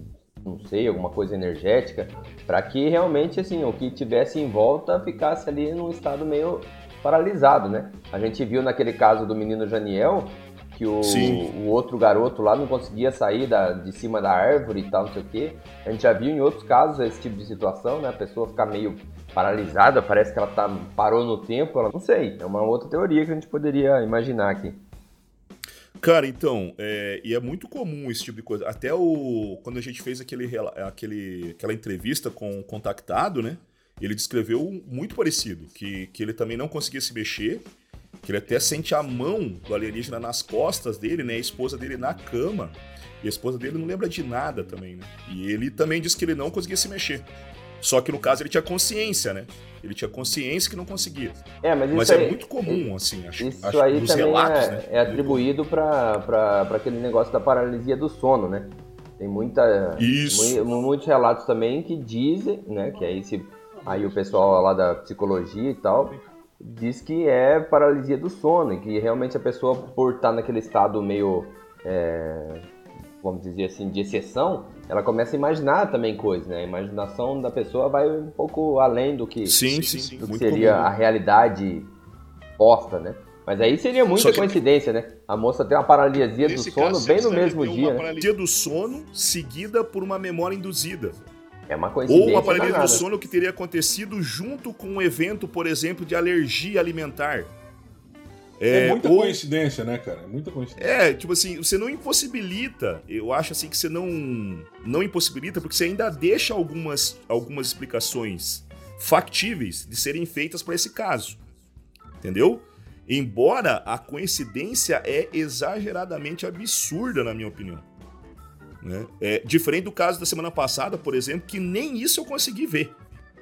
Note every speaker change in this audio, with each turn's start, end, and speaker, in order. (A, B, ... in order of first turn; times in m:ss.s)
0:00.4-0:24.8 A
0:11.0-0:11.4 B
0:26.0-0:37.7 B
0:38.2-0:47.3 B
0:47.8-0:51.4 B
0:51.6-1:12.7 A
0:51.9-0:55.5 B
1:00.0-1:00.6 B
1:03.8-1:04.6 C
1:13.2-1:21.9 A
1:19.4-1:20.9 B
1:22.6-1:28.1 A
1:24.2-1:24.6 B
1:26.4-1:31.2 B
1:31.7-1:33.0 A
1:32.1-1:37.5 B
1:38.6-1:39.4 B
1:38.7-1:41.0 C
1:40.8-1:51.4 B
1:52.2-1:57.8 B
1:58.8-2:03.0 B